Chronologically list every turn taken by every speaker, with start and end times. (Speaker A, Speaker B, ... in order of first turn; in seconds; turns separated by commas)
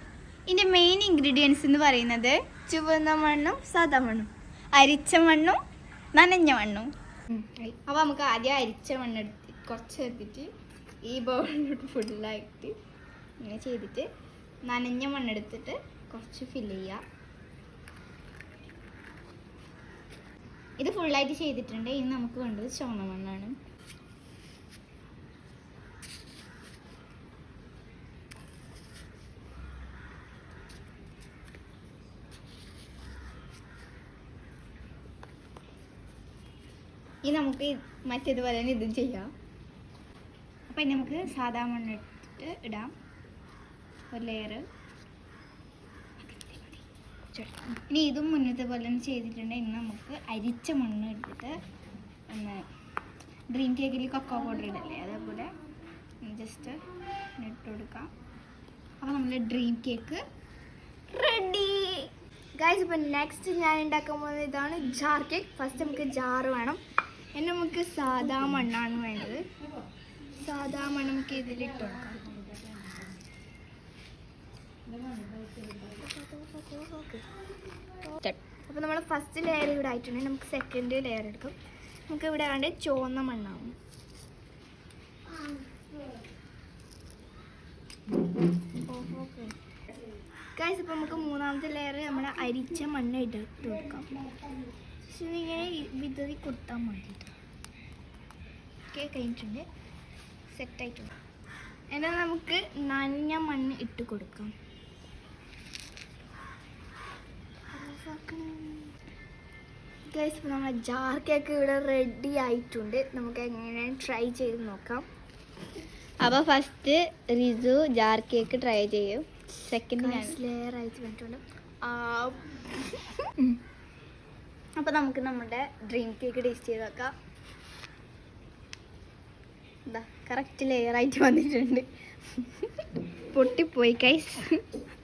Speaker A: 0.5-2.4, Speaker B: 2.7-4.3, Speaker A: 4.8-5.6, Speaker A: 6.1-6.9, Speaker B: 7.3-7.7, Speaker A: 7.8-10.5, Speaker A: 11.1-12.8, Speaker A: 13.4-14.1, Speaker A: 14.7-17.0, Speaker A: 20.8-23.6, Speaker A: 37.2-39.3, Speaker A: 40.7-42.9, Speaker A: 44.1-44.6, Speaker A: 46.2-46.9, Speaker B: 47.3-47.8, Speaker A: 47.9-51.6, Speaker A: 52.3-52.7, Speaker A: 53.5-55.5, Speaker A: 56.2-56.8, Speaker A: 57.4-58.1, Speaker A: 59.0-60.2, Speaker A: 61.1-62.1, Speaker B: 62.6-66.8, Speaker B: 67.3-69.5, Speaker B: 70.3-72.3, Speaker B: 75.8-77.3, Speaker B: 78.0-81.6, Speaker B: 82.1-83.7, Speaker B: 88.9-89.5, Speaker B: 90.5-94.1, Speaker B: 95.1-97.3, Speaker B: 98.9-99.7, Speaker B: 100.5-101.1, Speaker B: 101.9-104.5, Speaker B: 107.7-108.9, Speaker B: 110.1-115.1, Speaker A: 116.2-120.4, Speaker B: 120.0-122.7, Speaker B: 123.2-123.6, Speaker A: 124.8-127.1, Speaker A: 129.9-132.9, Speaker B: 133.3-134.6